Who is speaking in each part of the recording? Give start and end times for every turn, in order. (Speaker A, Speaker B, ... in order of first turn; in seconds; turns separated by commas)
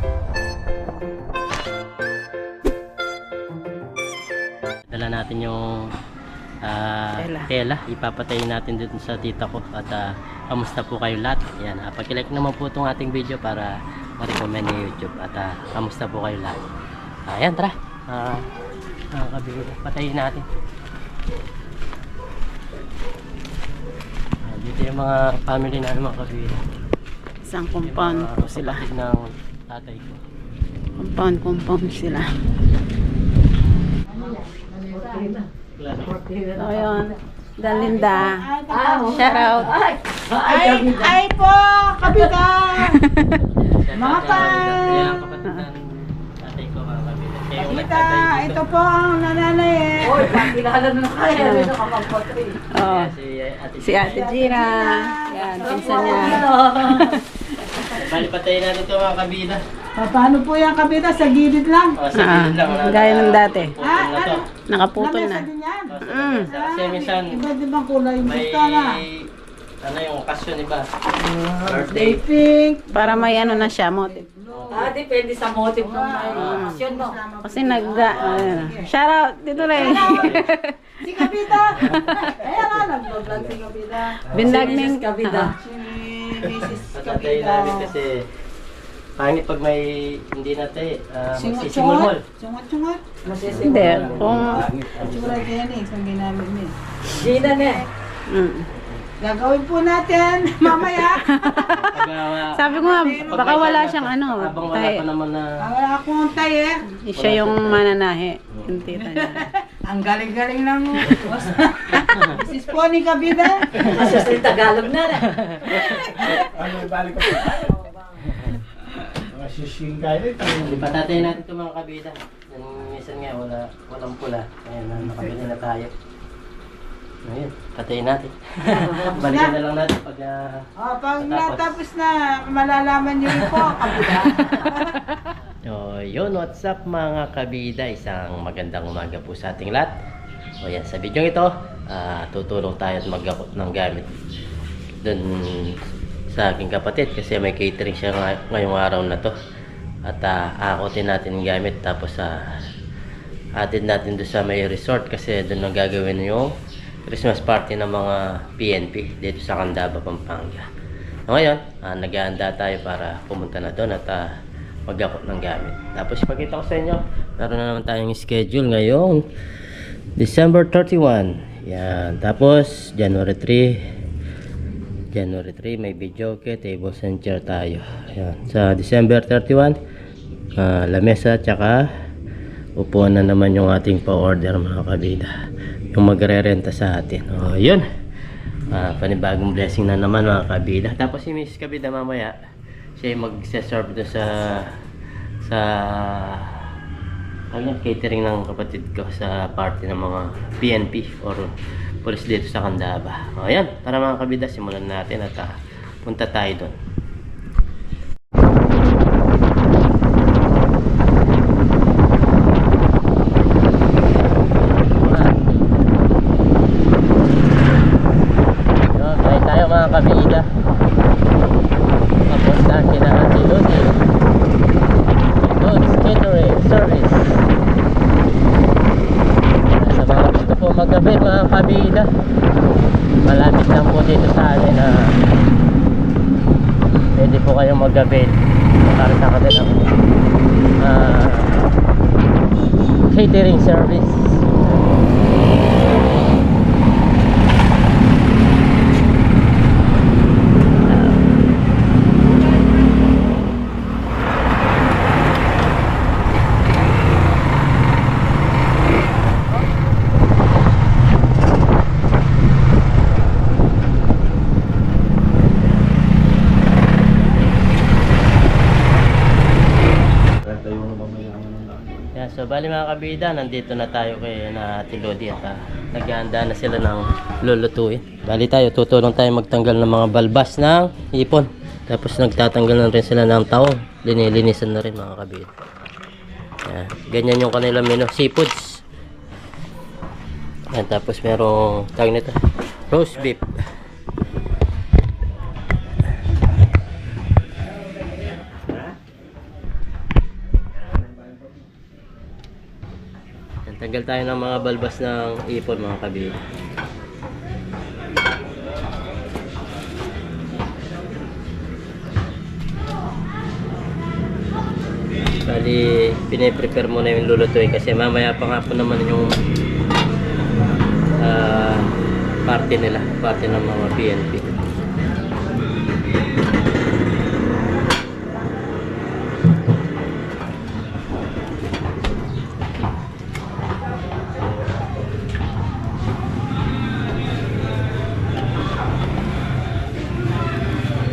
Speaker A: 4.9-5.6, Speaker A: 6.6-16.6, Speaker B: 7.2-7.5, Speaker A: 17.3-18.4, Speaker A: 19.1-20.4, Speaker A: 24.4-26.6, Speaker B: 27.5-28.8, Speaker A: 27.8-30.2, Speaker B: 31.0-32.2, Speaker C: 34.1-35.5, Speaker A: 35.8-36.1, Speaker C: 36.0-37.1, Speaker B: 36.5-38.5, Speaker D: 37.6-39.7, Speaker C: 38.7-41.2, Speaker B: 39.1-39.8, Speaker D: 40.4-43.0, Speaker C: 42.0-42.4, Speaker B: 42.9-43.4, Speaker A: 43.7-45.8, Speaker D: 43.9-45.1, Speaker A: 46.4-48.6, Speaker D: 47.5-50.2, Speaker C: 50.0-52.6, Speaker B: 51.3-51.8, Speaker B: 52.7-53.1, Speaker A: 52.8-54.3, Speaker B: 53.8-57.8, Speaker D: 54.1-56.6, Speaker C: 55.6-57.2, Speaker A: 58.0-59.6, Speaker D: 60.0-62.0, Speaker A: 61.9-64.4, Speaker B: 62.1-63.7, Speaker D: 63.8-69.0, Speaker B: 64.7-65.5, Speaker A: 65.8-67.5, Speaker B: 66.0-66.5, Speaker A: 68.2-69.3, Speaker A: 69.8-70.8, Speaker D: 71.2-75.0, Speaker A: 71.6-72.2, Speaker B: 72.9-74.2, Speaker A: 74.5-74.9, Speaker C: 74.7-77.2, Speaker D: 75.7-78.9, Speaker A: 76.3-76.7, Speaker B: 76.3-76.8, Speaker B: 77.4-80.7, Speaker A: 78.1-78.6, Speaker A: 79.5-80.5, Speaker D: 79.8-80.4, Speaker D: 81.0-84.7, Speaker B: 81.8-82.4, Speaker B: 84.3-85.5, Speaker C: 84.4-85.5, Speaker D: 85.4-87.9, Speaker A: 86.9-88.1, Speaker A: 89.2-92.2, Speaker D: 91.3-93.2, Speaker C: 93.2-94.2, Speaker E: 93.5-95.1, Speaker A: 93.6-95.5, Speaker B: 93.6-94.6, Speaker D: 94.9-97.9, Speaker C: 97.1-97.8, Speaker B: 98.3-98.7, Speaker D: 99.2-101.8, Speaker B: 101.2-101.9, Speaker A: 101.7-102.5, Speaker B: 102.5-105.0, Speaker D: 102.6-103.8, Speaker A: 103.2-105.5, Speaker D: 105.6-106.8, Speaker B: 107.0-109.5, Speaker A: 107.2-107.9, Speaker D: 109.0-113.8, Speaker A: 113.7-114.5, Speaker C: 113.8-115.3, Speaker A: 115.3-116.4, Speaker E: 116.3-117.7, Speaker E: 119.3-121.0, Speaker A: 120.4-125.9, Speaker A: 127.2-130.6, Speaker D: 128.8-129.6, Speaker D: 130.8-135.0, Speaker A: 131.2-131.7, Speaker A: 135.7-139.9, Speaker A: 140.6-144.1, Speaker A: 145.0-145.8, Speaker A: 146.3-149.3, Speaker A: 150.1-152.3, Speaker A: 153.6-156.5, Speaker A: 157.1-160.6, Speaker A: 161.3-164.2, Speaker A: 164.9-169.2, Speaker A: 170.2-173.7, Speaker A: 175.1-179.8, Speaker A: 180.6-181.8, Speaker A: 182.8-185.3, Speaker A: 185.9-187.8, Speaker A: 188.7-192.3, Speaker A: 193.0-194.7, Speaker A: 195.4-196.4, Speaker A: 197.5-201.5, Speaker A: 202.0-205.5, Speaker A: 206.0-206.7, Speaker A: 214.9-215.7, Speaker A: 218.9-220.5, Speaker A: 222.3-223.9, Speaker A: 225.4-227.2, Speaker A: 229.7-232.1, Speaker A: 233.2-235.1, Speaker A: 237.2-239.9, Speaker A: 240.8-241.6, Speaker A: 243.1-244.5, Speaker A: 250.9-251.2, Speaker E: 270.4-271.9, Speaker A: 272.1-285.5, Speaker A: 286.6-288.8, Speaker A: 290.7-292.4, Speaker A: 292.9-293.4, Speaker A: 303.7-306.4, Speaker A: 315.4-319.3, Speaker A: 321.2-321.9, Speaker A: 322.4-324.6